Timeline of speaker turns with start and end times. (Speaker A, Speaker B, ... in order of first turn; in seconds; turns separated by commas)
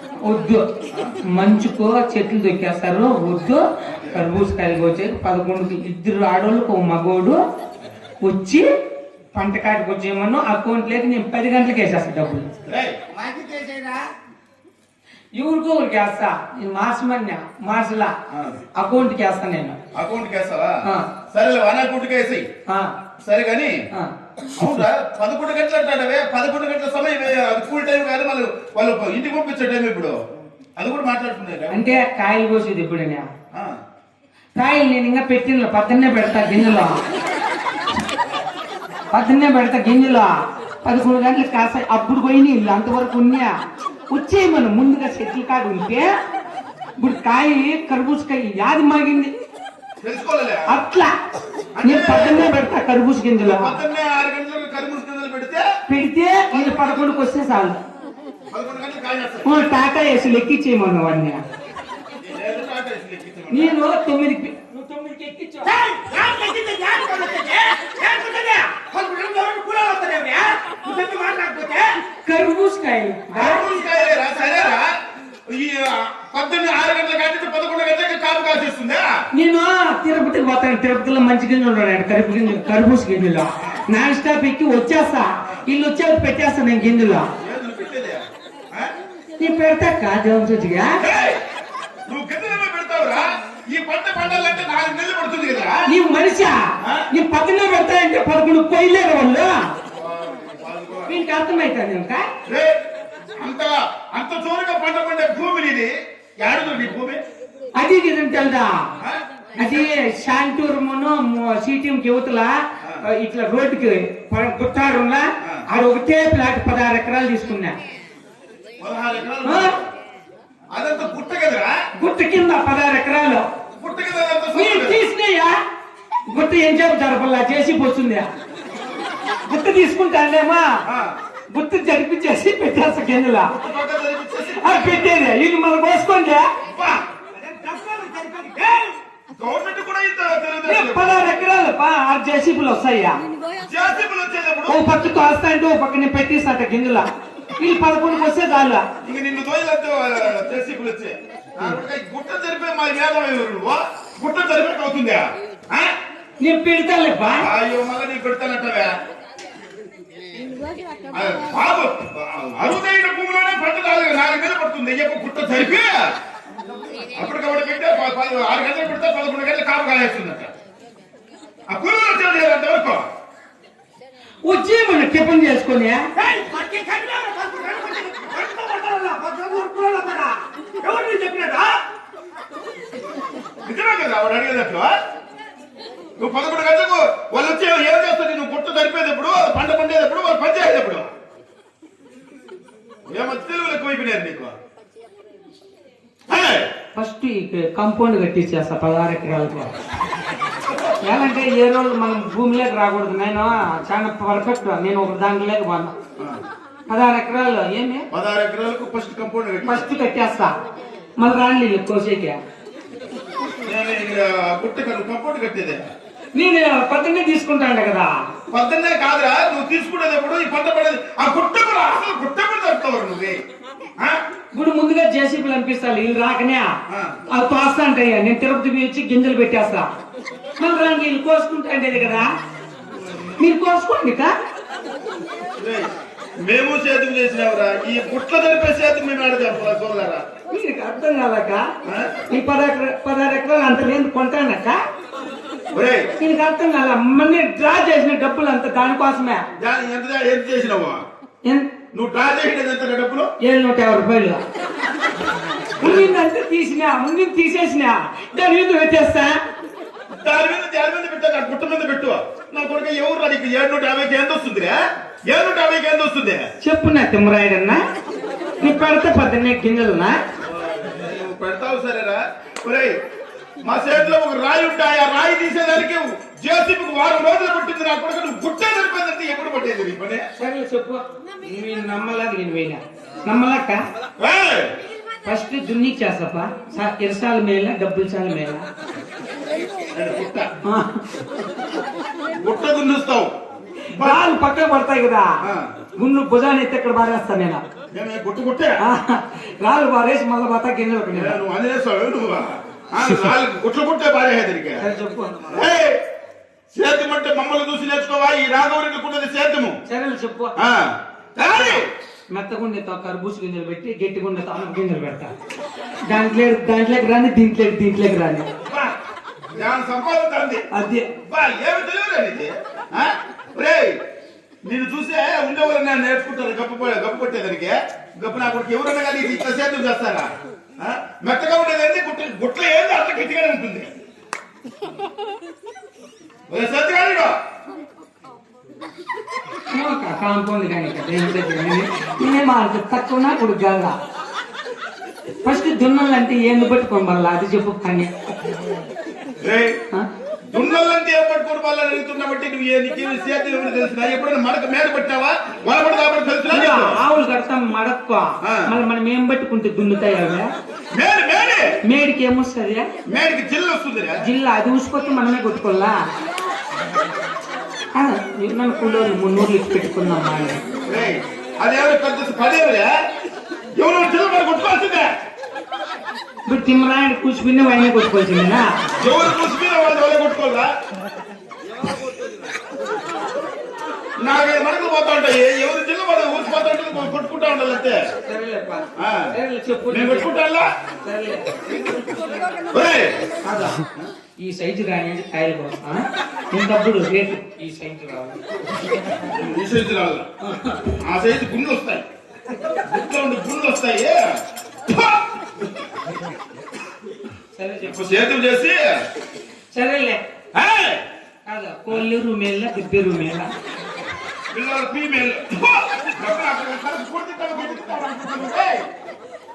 Speaker A: 0.2-0.6, Speaker B: 0.9-1.2, Speaker A: 1.3-7.4, Speaker B: 3.9-4.3, Speaker A: 8.2-8.6, Speaker A: 9.3-12.5, Speaker B: 12.6-13.0, Speaker C: 13.1-14.1, Speaker A: 15.3-18.1, Speaker B: 18.3-18.6, Speaker A: 18.8-19.8, Speaker B: 19.9-20.8, Speaker B: 21.3-22.4, Speaker A: 22.7-22.9, Speaker B: 23.2-23.8, Speaker B: 24.6-30.1, Speaker B: 30.8-32.0, Speaker A: 31.7-33.3, Speaker A: 34.5-37.0, Speaker A: 39.1-43.5, Speaker A: 44.1-46.1, Speaker A: 47.0-49.3, Speaker B: 50.0-50.8, Speaker A: 50.7-51.1, Speaker B: 51.8-52.5, Speaker A: 51.8-53.8, Speaker B: 53.4-55.7, Speaker A: 55.9-57.8, Speaker B: 56.5-57.2, Speaker B: 58.5-59.8, Speaker A: 59.4-61.4, Speaker B: 62.2-63.8, Speaker A: 63.5-65.8, Speaker C: 65.7-72.0, Speaker A: 72.2-73.7, Speaker B: 73.3-74.9, Speaker C: 73.8-74.6, Speaker B: 75.5-79.1, Speaker A: 79.3-87.3, Speaker B: 87.4-88.9, Speaker A: 89.4-91.0, Speaker B: 91.0-91.4, Speaker B: 92.1-95.9, Speaker A: 95.8-96.6, Speaker B: 96.8-97.1, Speaker A: 97.1-99.7, Speaker B: 99.9-101.2, Speaker A: 101.1-102.2, Speaker B: 102.5-102.8, Speaker B: 103.4-107.2, Speaker A: 107.7-108.9, Speaker B: 109.0-109.9, Speaker A: 109.5-117.8, Speaker B: 118.8-119.9, Speaker A: 119.4-119.8, Speaker B: 120.7-121.7, Speaker A: 122.0-123.5, Speaker B: 123.8-125.0, Speaker A: 124.5-125.6, Speaker A: 126.3-128.3, Speaker A: 129.5-130.8, Speaker B: 130.9-131.2, Speaker A: 131.5-133.6, Speaker B: 133.4-135.2, Speaker A: 134.5-136.5, Speaker B: 136.7-137.1, Speaker C: 137.3-138.9, Speaker B: 139.3-141.2, Speaker A: 140.6-143.2, Speaker B: 143.7-144.8, Speaker A: 144.7-147.1, Speaker A: 147.6-148.8, Speaker B: 149.0-155.9, Speaker A: 156.4-157.5, Speaker B: 157.4-158.9, Speaker B: 161.1-166.1, Speaker C: 166.7-167.1, Speaker B: 167.1-170.5, Speaker B: 171.7-173.1, Speaker A: 174.4-176.1, Speaker C: 176.2-181.8, Speaker B: 183.6-184.9, Speaker B: 186.2-191.1, Speaker B: 193.1-194.5, Speaker B: 196.3-196.7, Speaker A: 196.9-199.7, Speaker A: 201.0-205.9, Speaker A: 206.9-208.1, Speaker B: 208.1-209.9, Speaker A: 209.6-210.5, Speaker A: 211.2-212.4, Speaker B: 213.7-215.8, Speaker A: 216.3-218.1, Speaker B: 218.5-223.4, Speaker A: 224.5-226.7, Speaker B: 226.9-227.2, Speaker A: 227.3-229.9, Speaker A: 230.6-232.3, Speaker A: 233.4-234.3, Speaker B: 235.6-235.9, Speaker B: 236.4-240.2, Speaker A: 240.5-241.7, Speaker B: 241.8-242.3, Speaker A: 242.3-244.8, Speaker B: 245.7-246.1, Speaker A: 246.2-249.5, Speaker B: 249.6-251.0, Speaker A: 251.4-251.7, Speaker B: 251.9-253.3, Speaker A: 253.4-254.4, Speaker A: 255.8-259.4, Speaker B: 255.8-256.1, Speaker B: 260.1-266.4, Speaker A: 266.6-267.8, Speaker A: 268.6-270.2, Speaker B: 270.4-272.9, Speaker B: 273.6-280.2, Speaker A: 280.4-283.8, Speaker B: 284.2-284.7, Speaker A: 285.2-288.6, Speaker B: 289.9-290.5, Speaker A: 290.6-291.0, Speaker B: 292.4-293.3, Speaker A: 293.9-295.3, Speaker B: 293.9-294.2, Speaker B: 295.4-295.7, Speaker A: 296.0-297.6, Speaker B: 297.9-298.8, Speaker A: 298.8-301.4, Speaker B: 301.1-304.8, Speaker A: 304.8-305.7, Speaker B: 305.5-306.0, Speaker B: 306.7-309.8, Speaker A: 309.9-310.5, Speaker B: 310.6-311.9, Speaker A: 312.3-315.3, Speaker A: 316.1-318.5, Speaker B: 318.6-319.0, Speaker B: 319.5-320.6, Speaker A: 320.7-321.1, Speaker B: 321.2-324.0, Speaker B: 324.7-333.9, Speaker B: 336.5-337.3, Speaker A: 339.7-343.9, Speaker A: 345.4-348.3, Speaker B: 349.4-349.8, Speaker B: 350.5-357.0, Speaker A: 356.5-360.5, Speaker B: 358.4-358.7, Speaker B: 360.9-361.8, Speaker A: 361.8-362.9, Speaker B: 363.1-364.2, Speaker A: 364.2-366.0, Speaker A: 367.9-370.6, Speaker B: 370.9-372.9, Speaker B: 373.8-375.1, Speaker A: 376.5-378.8, Speaker B: 379.0-380.7, Speaker B: 384.2-388.0, Speaker A: 388.2-390.3, Speaker B: 389.0-389.3, Speaker B: 389.9-390.7, Speaker A: 391.0-391.9, Speaker B: 392.7-393.1, Speaker A: 393.4-393.8, Speaker A: 394.4-398.4, Speaker B: 399.3-400.3, Speaker A: 400.4-401.0, Speaker B: 400.9-402.1, Speaker B: 402.7-404.2, Speaker B: 404.9-405.7, Speaker A: 407.5-408.2, Speaker B: 407.8-409.0, Speaker A: 409.7-410.2, Speaker B: 410.5-411.0, Speaker A: 411.4-413.5, Speaker B: 414.5-418.9